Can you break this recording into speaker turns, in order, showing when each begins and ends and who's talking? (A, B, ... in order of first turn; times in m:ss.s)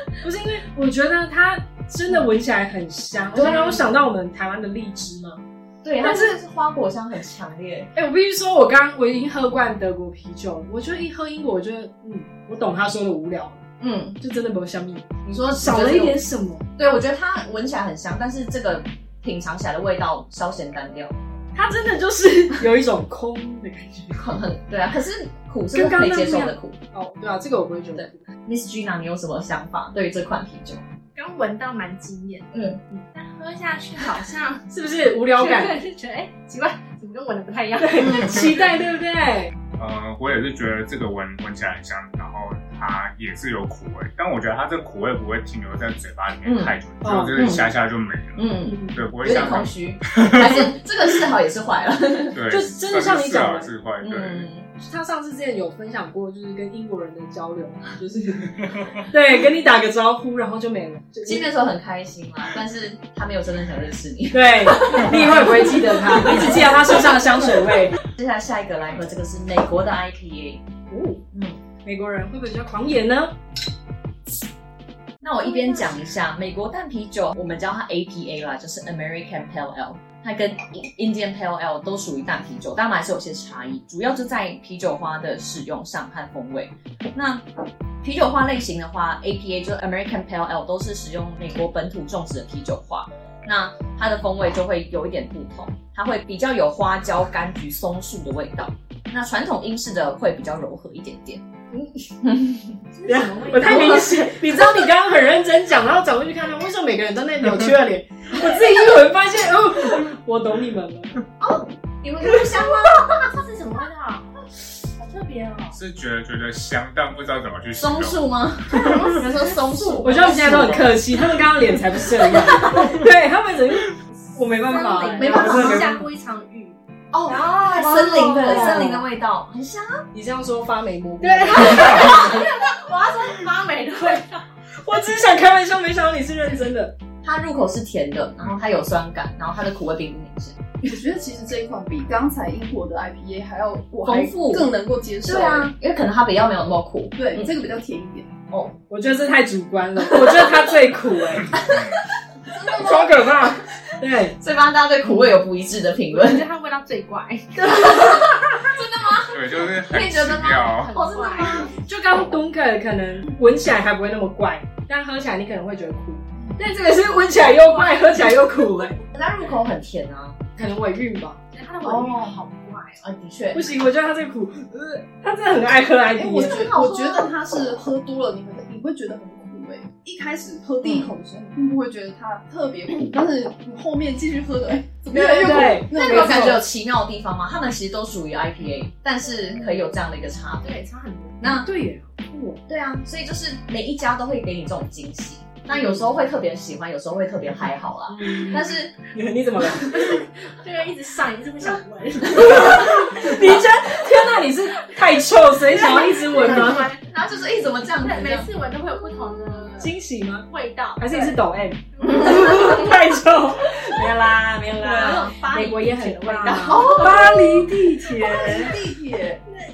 0:00.2-0:05.4 A
0:03.3-0:03.9 B
0:05.8-0:07.9 B
0:06.0-0:06.4 A
0:08.0-0:13.6 A
0:13.8-0:14.2 B
0:14.2-0:16.7 A
0:15.2-0:16.2 B
0:16.8-0:21.2 B
0:21.5-0:24.2 A
0:24.1-0:26.8 B
0:25.7-0:28.2 A
0:28.0-0:30.9 B
0:31.2-0:34.7 C
0:32.5-0:32.8 B
0:34.7-0:35.8 A
0:35.4-0:38.4 C
0:37.8-0:39.5 A
0:39.8-0:50.6 D
0:46.4-0:46.7 B
0:47.0-0:47.4 A
0:47.3-0:47.7 B
0:48.4-0:52.4 B
0:48.6-0:49.0 A
0:52.3-0:54.5 D
0:52.5-0:53.7 A
0:54.0-0:54.7 B
0:54.8-1:01.5 A
1:01.2-1:07.0 B
1:04.3-1:08.0 A
1:08.0-1:10.7 B
1:10.9-1:11.2 A
1:11.3-1:11.6 B
1:11.8-1:13.4 A
1:15.2-1:27.4 B
1:15.4-1:15.9 C
1:28.0-1:41.4 B
1:41.7-1:42.1 A
1:42.2-1:42.8 B
1:43.0-1:44.3 C
1:43.1-1:51.2 A
1:43.7-1:44.2 B
1:51.4-1:53.3 B
1:53.0-1:54.3 C
1:55.0-1:55.8 C
1:55.7-1:59.0 D
1:57.8-2:01.0 B
1:58.8-2:00.0 C
2:00.0-2:06.0 A
2:04.6-2:09.0 C
2:05.2-2:06.0 B
2:07.1-2:10.0 B
2:08.4-2:08.9 A
2:10.1-2:12.4 A
2:11.2-2:14.4 C
2:11.8-2:12.4 B
2:14.8-2:17.0 A
2:17.2-2:20.7 B
2:20.8-2:25.7 E
2:24.0-2:24.7 B
2:25.2-2:27.5 B
2:27.2-2:28.3 E
2:28.9-2:31.5 A
2:31.6-2:32.0 D
2:32.6-2:34.4 A
2:34.4-2:36.4 B
2:36.1-2:38.3 C
2:37.6-2:41.8 B
2:39.3-2:40.9 D
2:40.6-2:41.7 C
2:41.8-2:49.0 A
2:47.9-2:48.2 C
2:49.1-2:50.4 B
2:50.6-2:51.4 A
2:51.5-2:53.0 C
2:51.8-2:52.4 B
2:53.0-2:53.7 B
2:53.5-2:56.6 A
2:56.2-3:06.6 E
2:56.4-2:57.3 B
3:00.8-3:01.1 B
3:05.1-3:06.6 A
3:05.4-3:10.8 B
3:10.6-3:11.4 C
3:11.4-3:11.7 B
3:11.4-3:12.6 A
3:12.7-3:18.9 B
3:15.7-3:16.0 A
3:18.1-3:20.2 A
3:19.9-3:23.4 C
3:22.3-3:26.9 A
3:25.7-3:27.0 C
3:27.0-3:28.5 B
3:28.0-3:29.9 C
3:29.8-3:38.8 A
3:30.5-3:31.4 C
3:32.0-3:32.9 C
3:32.0-3:32.4 B
3:34.8-3:35.5 B
3:34.8-3:37.1 C
3:36.5-3:37.5 B
3:38.2-3:39.4 E